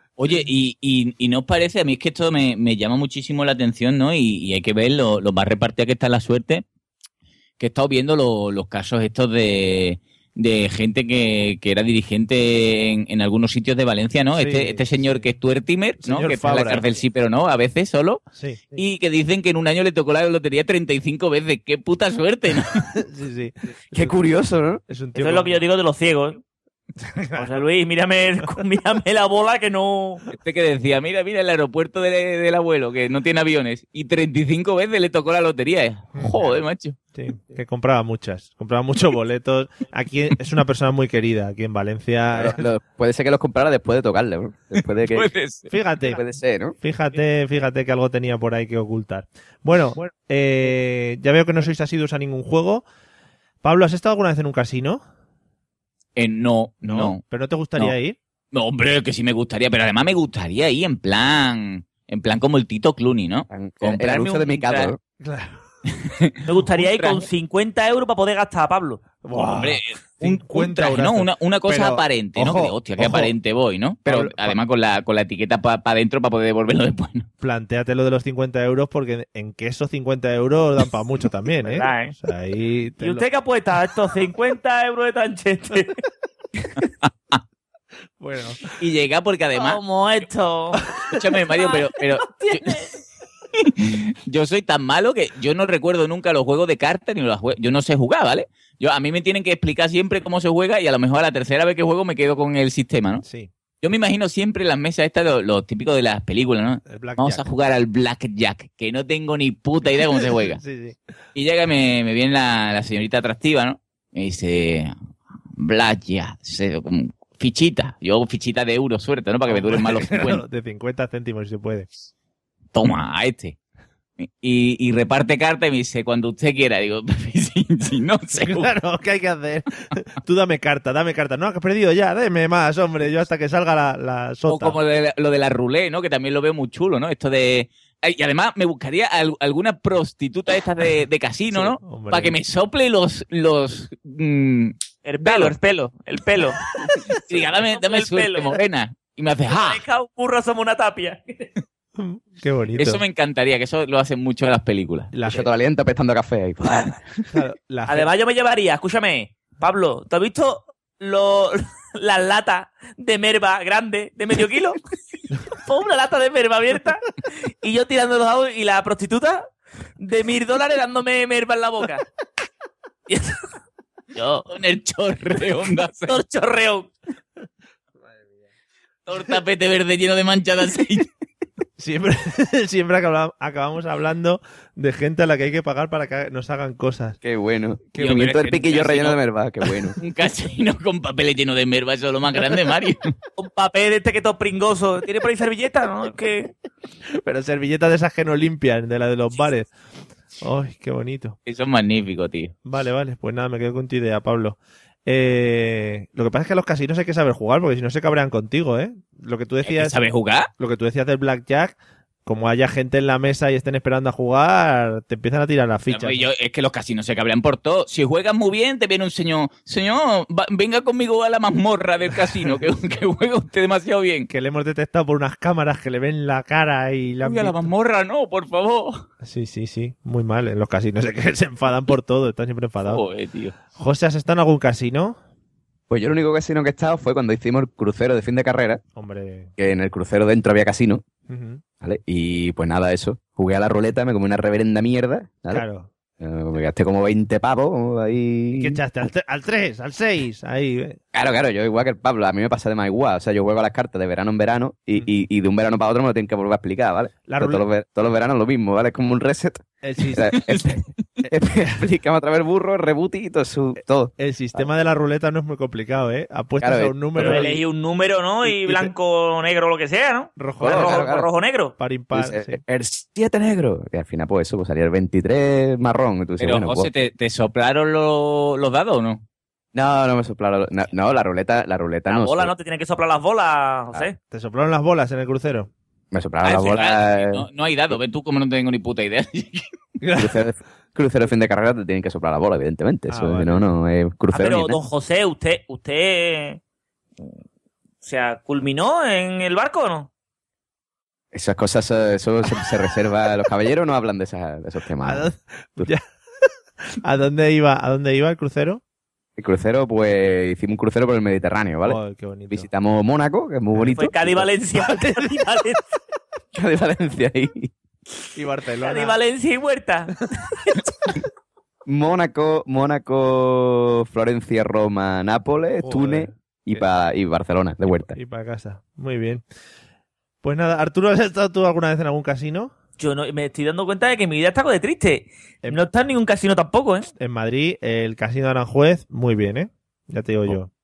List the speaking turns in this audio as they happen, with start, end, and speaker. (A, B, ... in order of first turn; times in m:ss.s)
0:00.2-0:06.6 A
0:07.6-0:18.2 A
0:14.4-0:15.3 B
0:16.0-0:16.9 B
0:18.4-0:18.8 B
0:18.8-0:22.7 A
0:23.0-0:24.2 B
0:23.9-0:24.8 C
0:24.9-0:25.6 B
0:25.2-0:26.4 D
0:27.0-0:27.5 B
0:27.4-0:30.2 D
0:30.3-0:37.0 A
0:36.2-0:36.6 B
0:37.1-0:42.7 B
0:42.3-0:45.3 C
0:44.8-0:45.7 A
0:45.7-0:46.2 B
0:46.0-0:46.8 C
0:46.8-0:52.8 B
0:53.6-0:55.0 B
0:56.2-0:57.2 A
0:56.8-0:58.2 B
0:58.5-1:04.9 A
1:03.5-1:05.0 C
1:05.2-1:05.6 B
1:05.9-1:07.3 A
1:06.5-1:09.0 D
1:09.2-1:13.3 B
1:09.3-1:17.3 A
1:14.1-1:14.6 B
1:17.4-1:23.3 B
1:21.6-1:22.1 D
1:23.0-1:26.0 D
1:27.0-1:27.4 A
1:28.2-1:28.6 B
1:28.8-1:29.8 A
1:29.6-1:30.8 D
1:31.1-1:32.7 A
1:31.6-1:33.0 D
1:33.6-1:43.2 A
1:43.2-1:43.5 B
1:43.8-1:50.6 A
1:46.9-1:47.5 B
1:49.9-1:51.0 B
1:51.4-1:55.0 A
1:55.6-2:00.4 A
1:59.5-2:01.9 B
2:02.7-2:03.6 A
2:04.2-2:08.7 A
2:08.5-2:14.8 B
2:14.5-2:25.5 A
2:21.5-2:22.4 B
2:25.0-2:26.6 D
2:27.1-2:29.8 A
2:27.6-2:28.6 D
2:29.5-2:31.5 D
2:32.0-2:33.0 B
2:32.8-2:35.1 A
2:35.1-2:35.5 B
2:35.2-2:37.2 C
2:37.3-2:38.1 B
2:37.9-2:44.8 D
2:45.6-2:47.0 D
2:47.6-2:49.4 D
2:50.0-2:52.0 D
2:53.1-2:53.4 D
2:54.2-2:54.5 D
2:54.5-2:56.2 A
2:56.1-2:56.9 D
2:59.1-3:01.1 A
3:01.8-3:07.2 B
3:07.2-3:10.0 C
3:08.0-3:09.2 A
3:10.0-3:13.0 A
3:13.4-3:16.5 D
3:17.2-3:19.7 B
3:20.4-3:21.4 B
3:21.5-3:22.5 A
3:22.6-3:36.3 B
3:29.6-3:30.5 A
3:35.9-3:44.3 A
3:44.3-3:47.6 B
3:47.2-3:49.0 A
3:49.2-3:53.0 B
3:52.8-3:53.6 A
3:53.7-3:55.2 B
3:55.9-3:58.8 C
3:59.0-3:59.5 B
3:59.6-4:01.0 C
4:01.3-4:01.6 B
4:01.8-4:05.6 C
4:05.5-4:05.9 B
4:06.2-4:08.8 C
4:08.6-4:11.0 B
4:11.1-4:24.7 C
4:17.3-4:17.7 B
4:19.8-4:20.4 B
4:20.3-4:20.7 A
4:24.2-4:27.6 B
4:26.6-4:27.5 C
4:27.2-4:31.8 D
4:30.4-4:31.0 B
4:30.6-4:31.3 C
4:31.8-4:32.6 B
4:32.1-4:36.9 C
4:36.4-4:39.2 A
4:39.7-4:42.5 C
4:42.1-4:44.2 D
4:44.3-4:45.7 B
4:46.1-4:48.0 C
4:46.4-4:49.7 A
4:50.0-4:50.4 B
4:50.2-4:54.8 C
4:53.1-4:53.6 B
4:54.3-4:56.6 D
4:58.0-5:00.1 D
5:01.3-5:05.9 C
5:05.0-5:06.0 B
5:07.0-5:08.8 B
5:09.4-5:14.5 C
5:11.8-5:12.7 B
5:13.9-5:15.8 D
5:14.8-5:15.4 B
5:16.5-5:17.7 C
5:18.4-5:19.2 B
5:18.8-5:20.2 D
5:21.9-5:28.2 C
5:25.8-5:26.8 B
5:28.1-5:29.4 B
5:30.4-5:32.7 B
5:33.0-5:37.1 D
5:37.2-5:40.7 B